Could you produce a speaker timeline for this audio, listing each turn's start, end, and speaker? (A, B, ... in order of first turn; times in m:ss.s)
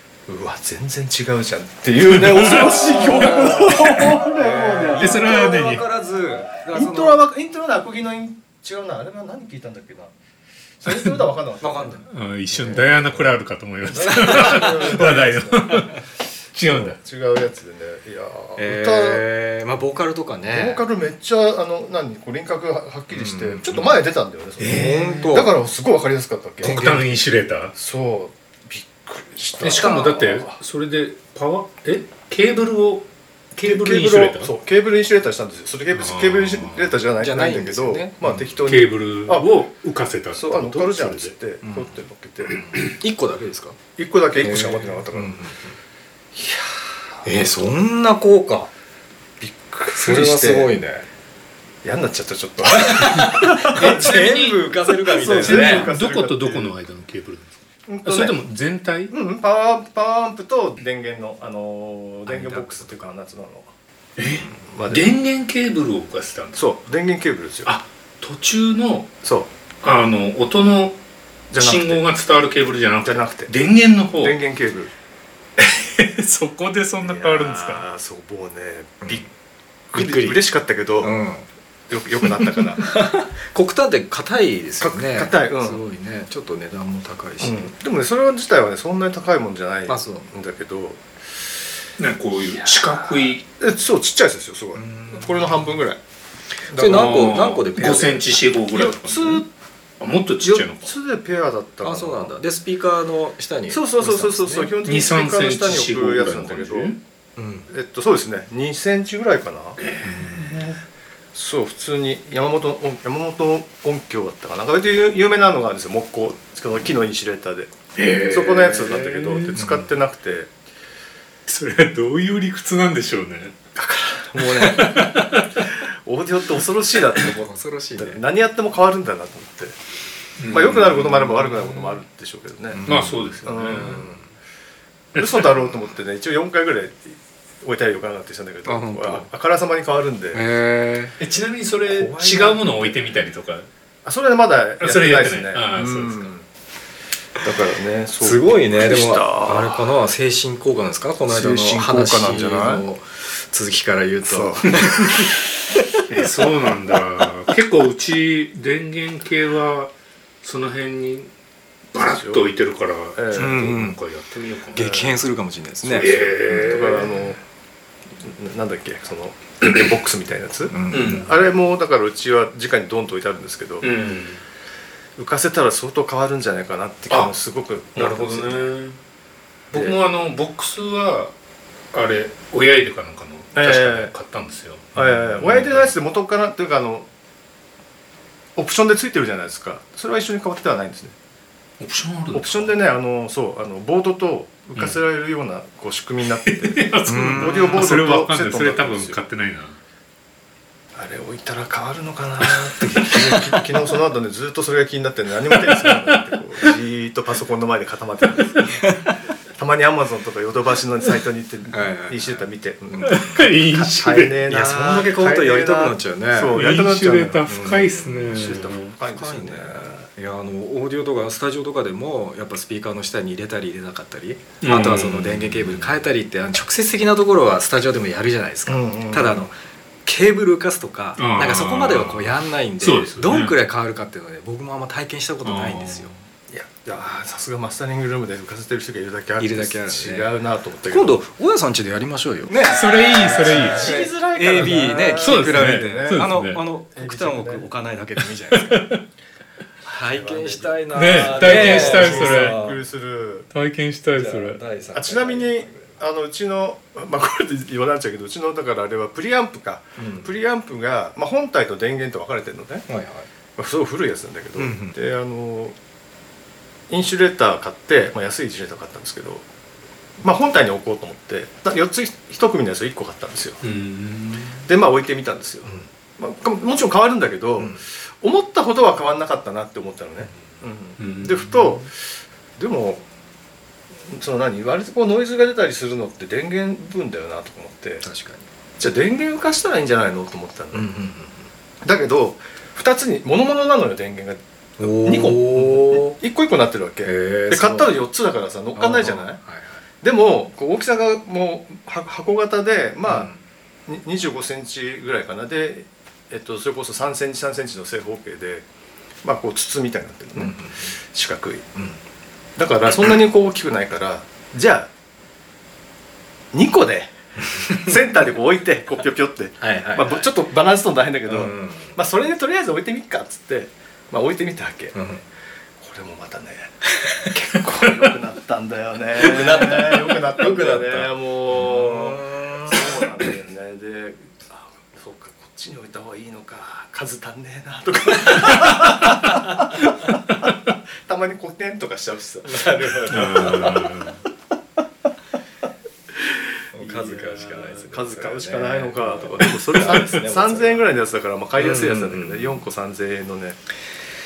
0:00.3-0:05.4 A
0:02.2-0:02.8 B
0:02.9-0:07.2 C
0:05.0-0:05.8 B
0:06.7-0:10.1 A
0:10.8-0:12.0 A
0:11.6-0:12.0 C
0:12.0-0:17.0 B
0:12.5-0:13.0 A
0:14.0-0:15.0 C
0:14.0-0:15.8 A
0:15.8-0:16.0 C
0:16.7-0:19.3 A
0:18.6-0:20.8 C
0:20.5-0:26.9 A
0:23.1-0:23.9 C
0:24.6-0:25.4 B
0:24.6-0:25.5 C
0:26.6-0:27.7 B
0:26.6-0:27.0 C
0:27.8-0:30.6 A
0:29.6-0:34.5 B
0:33.6-0:39.6 A
0:35.9-0:37.0 B
0:37.2-0:38.4 C
0:38.6-0:41.4 B
0:40.3-0:42.7 A
0:41.6-0:41.9 C
0:42.6-0:43.8 C
0:42.7-0:43.0 B
0:44.0-0:45.4 A
0:44.4-0:45.8 C
0:46.3-0:47.4 A
0:47.2-0:48.7 C
0:49.4-0:50.8 A
0:50.0-0:51.1 C
0:51.8-0:54.0 A
0:52.7-0:55.9 C
0:53.3-0:59.1 B
0:54.9-0:56.8 A
0:57.9-0:58.4 A
0:59.1-1:03.7 A
1:02.3-1:03.1 C
1:04.2-1:06.6 B
1:04.6-1:05.2 A
1:06.6-1:07.7 A
1:07.7-1:09.1 B
1:09.2-1:09.5 A
1:09.8-1:11.0 B
1:11.5-1:12.0 A
1:11.5-1:14.4 B
1:13.0-1:13.5 A
1:14.2-1:14.9 A
1:15.6-1:17.8 B
1:17.0-1:19.3 A
1:19.9-1:21.2 A
1:20.0-1:20.4 C
1:21.0-1:21.5 C
1:21.9-1:22.9 A
1:22.8-1:27.7 C
1:24.8-1:25.8 A
1:27.4-1:31.0 A
1:29.9-1:30.3 C
1:32.0-1:33.4 B
1:33.4-1:36.0 A
1:34.8-1:35.7 C
1:36.7-1:37.0 A
1:36.7-1:38.4 C
1:36.8-1:39.4 B
1:38.7-1:39.5 A
1:40.0-1:40.9 B
1:40.4-1:42.4 A
1:41.8-1:44.8 C
1:43.7-1:46.9 A
1:44.8-1:47.0 B
1:47.4-1:47.7 C
1:47.7-1:49.9 A
1:49.8-1:50.8 B
1:50.0-1:50.7 C
1:51.3-1:57.7 A
1:58.0-1:59.9 B
1:58.3-2:00.5 A
1:59.6-1:59.8 C
2:01.5-2:03.6 B
2:03.8-2:04.8 A
2:04.4-2:05.7 B
2:04.7-2:05.2 C
2:05.6-2:09.8 A
2:07.3-2:08.2 C
2:10.4-2:12.0 B
2:10.5-2:14.2 A
2:12.7-2:14.3 C
2:12.8-2:14.0 B
2:15.1-2:15.7 B
2:15.2-2:20.4 A
2:18.6-2:19.3 C
2:20.3-2:21.2 C
2:21.2-2:23.7 B
2:21.9-2:23.0 A
2:24.0-2:26.4 A
2:24.8-2:26.3 B
2:27.4-2:30.0 A
2:28.2-2:36.0 C
2:31.3-2:32.9 A
2:34.2-2:34.8 A
2:36.1-2:41.3 B
2:41.9-2:44.9 B
2:42.0-2:42.4 A
2:43.2-2:43.8 A
2:43.3-2:44.0 C
2:44.7-2:46.2 C
2:44.7-2:45.2 A
2:45.8-2:47.2 B
2:46.2-2:47.4 A
2:48.2-2:53.9 A
2:50.7-2:51.3 C
2:50.9-2:51.3 B
2:53.8-2:54.4 B
2:55.2-2:58.7 A
2:57.1-2:57.3 B
2:58.0-2:59.0 B
2:59.7-3:01.3 B
3:01.9-3:05.9 B
3:03.6-3:04.1 A
3:05.0-3:07.1 A
3:08.6-3:11.2 A
3:11.8-3:12.7 B
3:12.3-3:19.2 A
3:16.4-3:19.8 B
3:17.0-3:17.9 C
3:21.0-3:28.7 A
3:22.8-3:23.1 C
3:22.9-3:23.5 B
3:25.6-3:26.2 B
3:28.5-3:29.2 C
3:29.6-3:33.0 A
3:31.7-3:32.4 C
3:32.9-3:33.5 C
3:33.0-3:34.4 B
3:33.6-3:37.4 A
3:34.5-3:36.6 C
3:36.4-3:39.0 B
3:37.4-3:38.5 C
3:38.3-3:40.1 A
3:39.1-3:56.1 C
3:44.6-3:46.1 B
3:48.7-3:49.5 A
3:51.2-3:53.6 B
3:55.4-3:56.2 B
3:56.5-4:01.2 A
3:59.4-4:00.3 C
4:00.9-4:08.9 C
4:02.5-4:03.9 B
4:03.4-4:06.3 A
4:05.2-4:06.6 B
4:07.0-4:07.7 A
4:08.5-4:09.0 B
4:09.8-4:12.8 C
4:10.1-4:13.5 A
4:10.9-4:12.6 B
4:13.5-4:14.6 B
4:14.1-4:16.0 C
4:14.9-4:22.9 A
4:20.0-4:20.3 C
4:22.9-4:23.3 C
4:23.6-4:25.8 A
4:24.6-4:25.0 C
4:26.9-4:29.4 A
4:30.2-4:33.6 A
4:33.6-4:34.6 B
4:34.6-4:41.9 A
4:41.0-4:41.9 B
4:42.6-4:43.0 A
4:44.1-4:48.0 A
4:48.0-4:48.5 C
4:48.8-4:50.9 A
4:50.7-4:51.5 C
4:51.8-4:59.4 A
4:54.8-4:56.2 C
4:57.0-4:57.9 C
4:58.8-4:59.8 C
5:00.0-5:03.3 A
5:03.1-5:03.4 C
5:03.9-5:08.7 A
5:09.2-5:11.6 A
5:10.4-5:10.9 C
5:11.8-5:12.0 C
5:12.6-5:14.9 A
5:16.5-5:25.0 A
5:17.4-5:17.9 C
5:19.6-5:20.3 C
5:21.3-5:22.0 C
5:24.9-5:25.2 C
5:25.8-5:40.0 A
5:29.2-5:32.8 C
5:41.0-5:43.8 A
5:42.4-5:44.1 C
5:43.1-5:44.2 B
5:46.7-5:50.9 C
5:46.8-5:53.6 A
5:51.6-5:52.5 C